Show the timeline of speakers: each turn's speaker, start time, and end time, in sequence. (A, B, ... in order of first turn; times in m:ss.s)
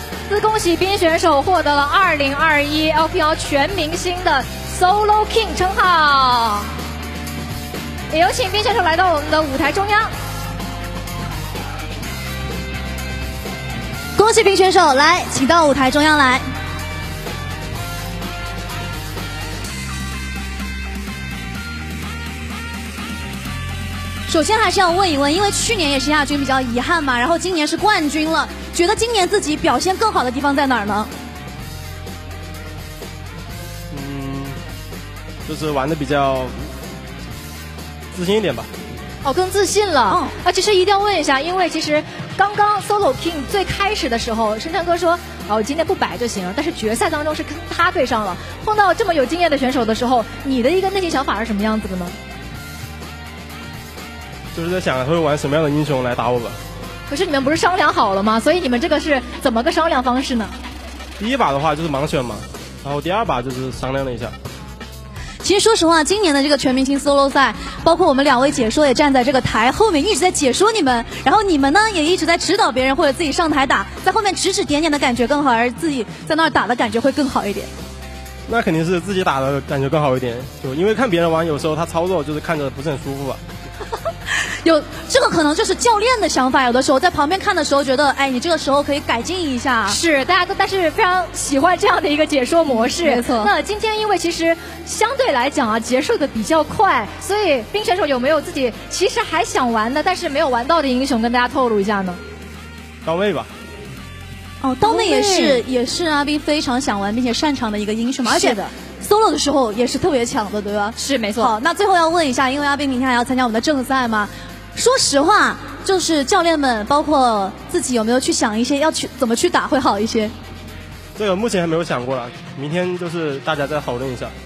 0:00.3-0:06.7 A
0:08.1-0:10.1 A
0:14.2-0:16.4 B
0:24.3-0:31.1 B
0:33.9-0:34.6 C
0:35.5-0:36.8 C
0:38.1-0:38.7 C
0:39.2-0:52.2 A
0:54.5-0:56.6 C
0:57.1-1:00.6 A
1:01.2-1:04.4 C
1:05.4-1:17.7 B
1:18.5-1:23.4 C
1:24.3-1:30.0 B
1:29.9-1:42.2 A
1:32.7-1:33.5 B
1:43.0-1:43.5 C
1:44.6-2:00.3 B
1:44.8-1:45.6 A
1:48.2-1:48.8 A
1:51.0-1:51.5 A
2:01.2-2:04.3 C